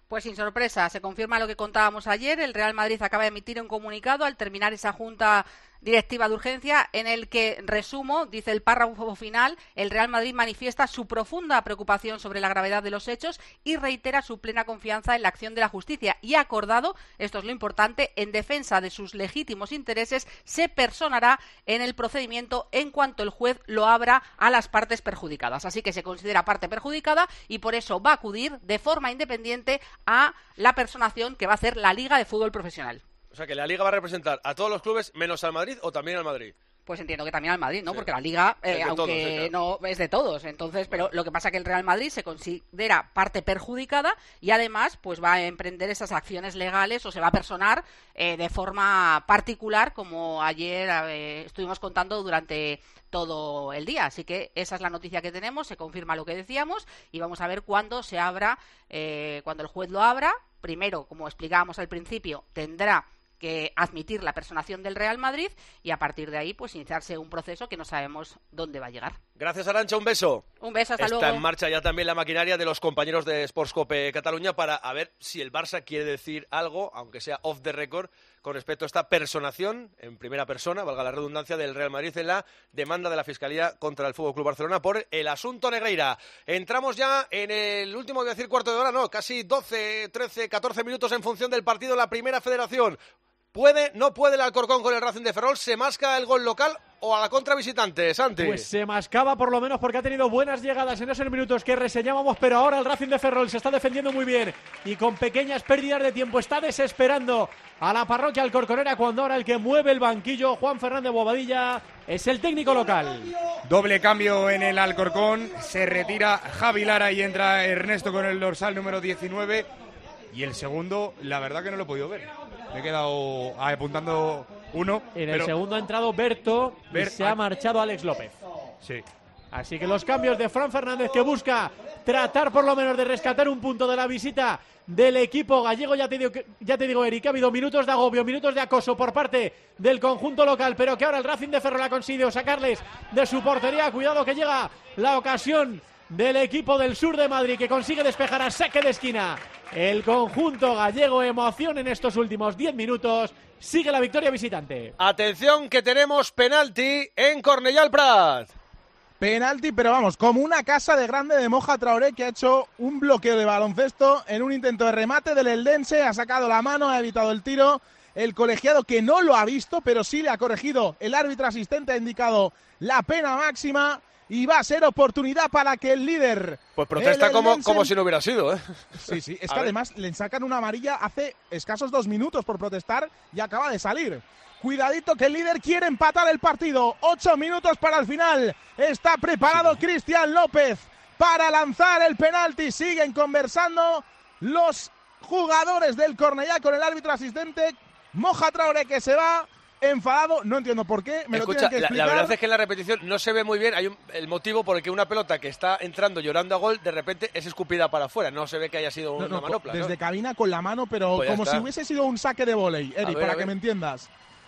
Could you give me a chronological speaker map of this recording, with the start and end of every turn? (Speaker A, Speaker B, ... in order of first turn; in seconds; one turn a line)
Speaker A: 0.1-33.0
Speaker B: 33.3-36.5
Speaker A: 36.9-69.2
Speaker B: 38.7-39.5
Speaker B: 69.4-70.5
Speaker A: 70.6-71.5
Speaker B: 71.0-93.0
Speaker B: 93.5-98.7
Speaker C: 98.4-113.3
Speaker D: 113.7-119.7
Speaker D: 120.3-125.5
Speaker C: 125.1-128.3
Speaker D: 126.9-127.4
Speaker C: 129.5-154.9
Speaker B: 155.0-158.5
Speaker E: 159.2-177.9
Speaker B: 176.8-179.7
Speaker E: 179.0-202.3
Speaker B: 189.5-189.8
Speaker B: 201.3-209.9
Speaker E: 209.2-214.1
Speaker B: 211.2-211.7
Speaker B: 213.0-213.5